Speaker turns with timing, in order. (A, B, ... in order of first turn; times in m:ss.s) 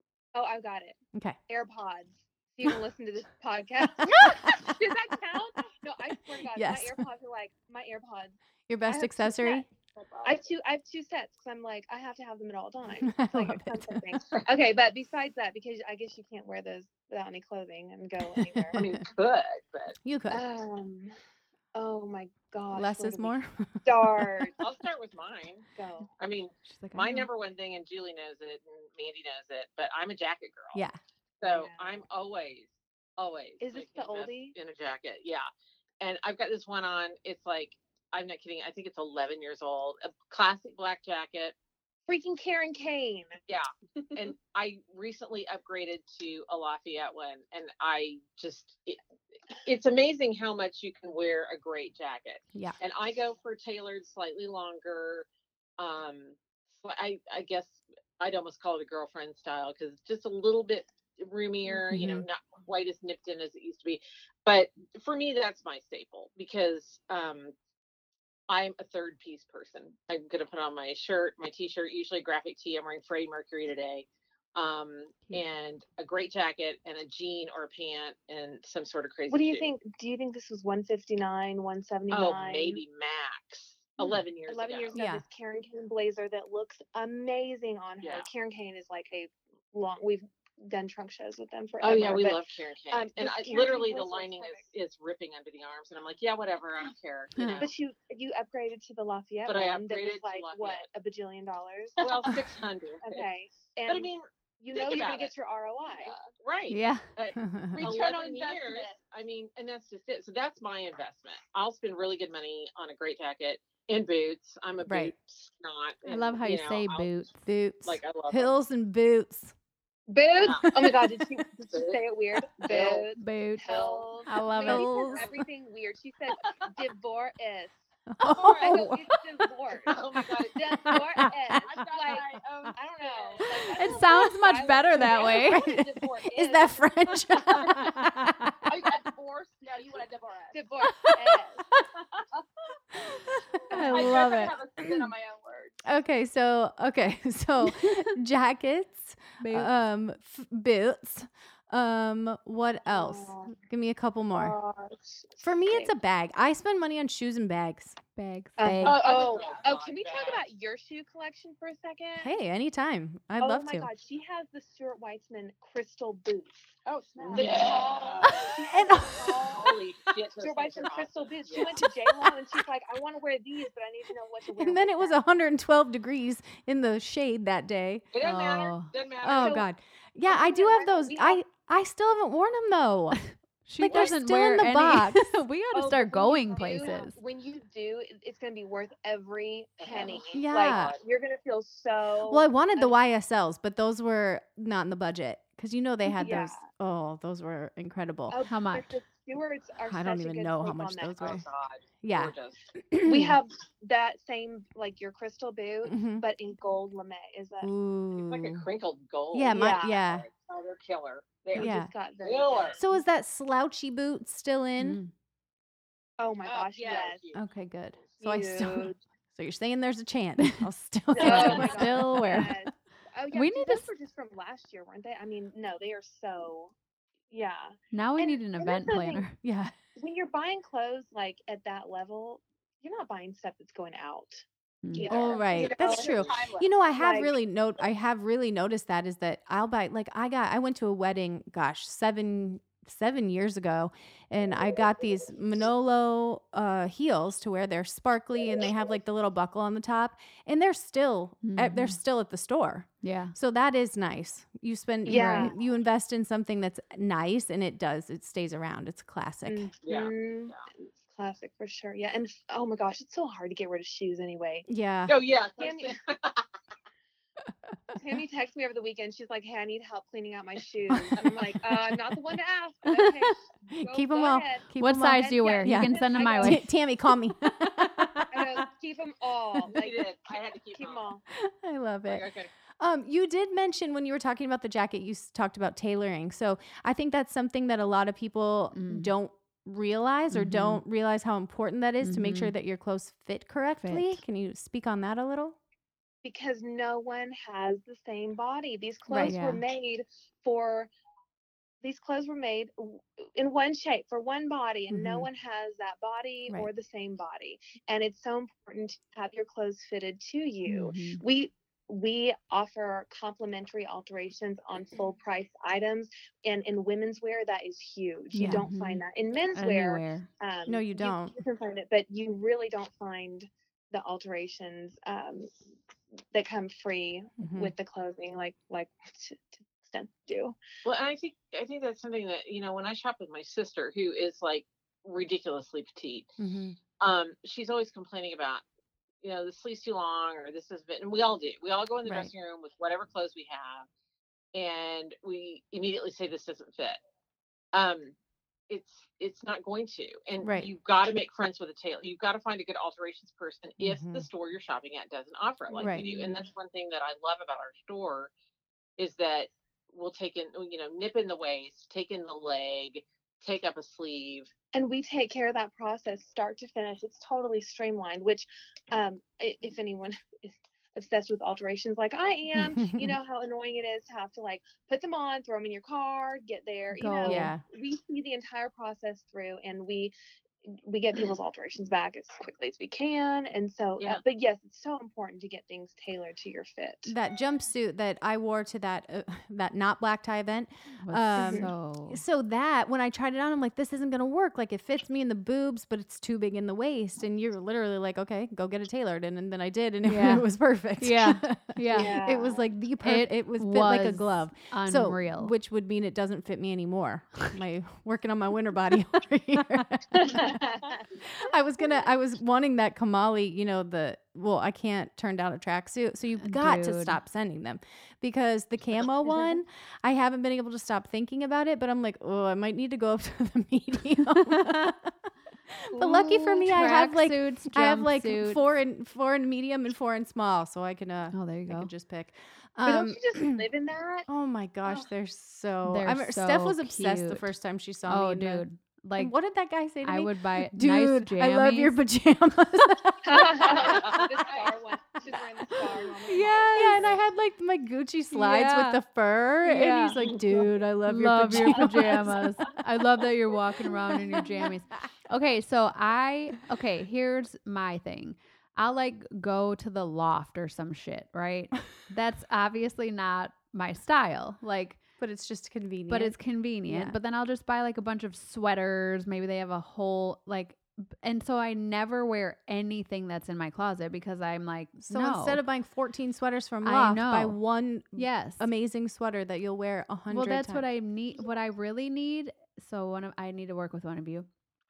0:00.3-0:09.6 A
0:04.1-0:04.7 B
0:06.5-0:07.0 B
0:08.7-0:09.7 B
0:09.9-0:10.4 C
0:10.2-0:18.8 A
0:13.0-0:14.0 B
0:18.4-0:18.9 B
0:18.7-0:19.9 D
0:20.0-0:20.4 B
0:20.3-0:21.1 A
0:21.7-0:24.6 A
0:22.7-0:24.5 B
0:24.6-0:25.7 D
0:25.7-0:26.1 A
0:26.2-0:30.8 D
0:26.6-0:27.3 E
0:31.4-0:35.5 D
0:31.4-0:32.0 A
0:33.6-0:34.5 A
0:36.0-0:41.5 D
0:42.1-0:43.4 A
0:43.5-0:49.0 D
0:49.6-0:55.3 D
0:55.8-1:07.5 D
1:01.9-1:02.2 E
1:08.5-1:19.7 D
1:19.3-1:22.8 A
1:22.1-1:25.0 D
1:24.0-1:34.7 A
1:24.9-1:25.2 B
1:28.0-1:28.3 D
1:31.8-1:37.7 D
1:37.4-1:37.7 E
1:37.6-1:42.4 A
1:39.4-1:40.8 D
1:42.0-1:43.3 D
1:43.0-1:44.1 A
1:43.9-1:45.3 D
1:44.6-1:46.2 A
1:45.9-1:57.1 D
1:46.7-1:47.1 E
1:47.4-1:47.8 B
1:47.8-1:48.9 C
1:47.8-1:48.2 A
1:54.8-1:55.1 B
1:56.0-1:57.5 E
1:57.4-1:59.5 B
1:57.8-1:58.6 D
2:00.1-2:07.7 A
2:00.4-2:01.0 D
2:01.7-2:02.0 D
2:02.6-2:03.0 D
2:03.2-2:03.7 E
2:04.2-2:05.2 E
2:04.6-2:05.3 B
2:08.1-2:09.1 B
2:08.5-2:16.8 A
2:09.8-2:11.0 D
2:10.8-2:11.6 B
2:11.6-2:13.6 C
2:13.7-2:15.7 E
2:15.4-2:18.5 B
2:15.7-2:16.2 C
2:18.6-2:20.6 C
2:20.5-2:21.6 A
2:20.8-2:21.4 B
2:22.1-2:22.4 C
2:23.0-2:25.1 B
2:23.6-2:25.8 C
2:23.8-2:24.4 E
2:25.8-2:34.6 B
2:27.7-2:28.0 E
2:29.4-2:29.7 E
2:32.9-2:33.5 A
2:34.3-2:35.9 A
2:35.4-2:38.0 B
2:38.2-2:39.0 E
2:38.6-2:42.4 A
2:38.8-2:40.4 D
2:38.8-2:39.5 C
2:42.2-2:43.9 B
2:43.4-2:49.8 A
2:46.8-2:48.5 C
2:47.3-2:48.6 D
2:48.7-2:49.5 B
2:49.4-2:51.8 D
2:50.4-2:55.2 A
2:51.8-2:52.3 B
2:54.6-2:58.0 B
2:58.1-2:59.6 D
2:58.2-2:58.9 E
2:59.2-3:03.2 B
2:59.4-2:59.7 A
3:00.2-3:01.4 A
3:03.3-3:07.2 E
3:03.8-3:05.3 B
3:05.7-3:13.0 A
3:09.8-3:10.9 D
3:10.3-3:10.9 B
3:12.3-3:18.4 B
3:16.0-3:16.6 A
3:18.3-3:21.3 A
3:18.5-3:19.0 E
3:19.8-3:21.4 B
3:21.2-3:22.6 D
3:22.0-3:22.3 B
3:22.9-3:23.4 B
3:23.0-3:27.7 A
3:25.8-3:26.2 B
3:27.6-3:28.6 B
3:28.2-3:32.8 D
3:29.3-3:30.2 B
3:29.5-3:29.9 A
3:31.5-3:33.0 A
3:31.6-3:31.9 B
3:32.8-3:35.0 B
3:34.8-3:35.1 E
3:36.2-3:37.2 A
3:36.4-3:37.4 D
3:37.3-3:38.0 E
3:38.2-3:39.0 A
3:38.2-3:42.4 B
3:41.1-3:46.7 A
3:41.2-3:42.5 E
3:41.2-3:41.7 D
3:43.3-3:43.9 E
3:47.3-3:49.2 A
3:47.9-3:49.4 E
3:49.4-3:49.7 B
3:49.9-3:56.2 A
3:54.8-3:55.1 E
3:55.0-3:56.7 C
3:55.1-4:19.7 B
3:55.8-3:56.3 D
3:56.9-3:57.3 A
4:11.4-4:12.0 E
4:13.0-4:13.3 E
4:15.0-4:15.5 A
4:15.1-4:15.5 E
4:19.4-4:24.7 A
4:19.8-4:20.6 D
4:24.7-4:25.2 B
4:25.1-4:26.4 D
4:25.6-4:26.0 A
4:28.0-4:36.7 A
4:30.9-4:31.3 B
4:33.7-4:38.5 B
4:34.8-4:36.6 E
4:38.3-4:41.2 A
4:39.7-4:41.0 D
4:41.4-4:42.2 B
4:42.0-4:42.5 D
4:42.8-4:55.6 B
4:48.7-4:49.1 E
4:50.3-4:50.8 E
4:52.0-4:52.5 E
4:53.8-4:54.2 E
4:56.2-5:00.9 A
4:59.1-4:59.4 B
4:59.2-4:59.6 E
5:01.8-5:25.5 A
5:04.9-5:05.3 B
5:10.6-5:11.2 E
5:18.3-5:20.3 E
5:18.4-5:18.6 B
5:20.7-5:21.4 B
5:26.3-5:30.6 A
5:27.4-5:27.7 B
5:30.8-5:36.3 D
5:36.4-5:36.8 B
5:37.0-5:38.6 D
5:39.2-5:43.9 D
5:42.0-5:42.3 B
5:44.5-5:47.0 D
5:47.7-5:48.1 D
5:48.7-5:58.3 D
5:50.4-5:50.7 B
5:53.8-5:54.3 B
5:55.7-5:56.3 A
5:59.0-6:04.5 D
6:04.7-6:20.1 A
6:12.6-6:13.2 B
6:16.9-6:17.5 E
6:17.2-6:17.6 B
6:20.7-6:27.1 A
6:27.0-6:50.6 B
6:31.0-6:32.2 E
6:31.3-6:31.7 A
6:40.0-6:40.4 E
6:41.0-6:42.2 E
6:41.9-6:42.6 A
6:43.0-6:45.5 E
6:50.2-6:51.0 A
6:51.3-7:05.1 B
6:56.4-6:57.2 E
6:59.2-6:59.6 A
7:04.5-7:04.9 E
7:05.9-7:13.6 B
7:05.9-7:06.4 A
7:06.1-7:08.7 E
7:11.3-7:11.9 E
7:12.8-7:14.3 A
7:14.3-7:18.6 B
7:15.8-7:17.5 E
7:18.1-7:19.3 E
7:19.2-7:24.2 B
7:20.0-7:22.0 E
7:23.2-7:27.2 A
7:23.6-7:24.7 D
7:26.2-7:27.2 E
7:26.7-7:32.6 B
7:28.3-7:29.0 E
7:29.6-7:45.0 E
7:31.7-7:32.2 A
7:45.2-7:47.2 B
7:46.1-7:55.6 E
7:55.0-8:00.9 B
7:56.8-7:57.6 E
7:58.1-7:58.7 E
8:00.3-8:04.5 E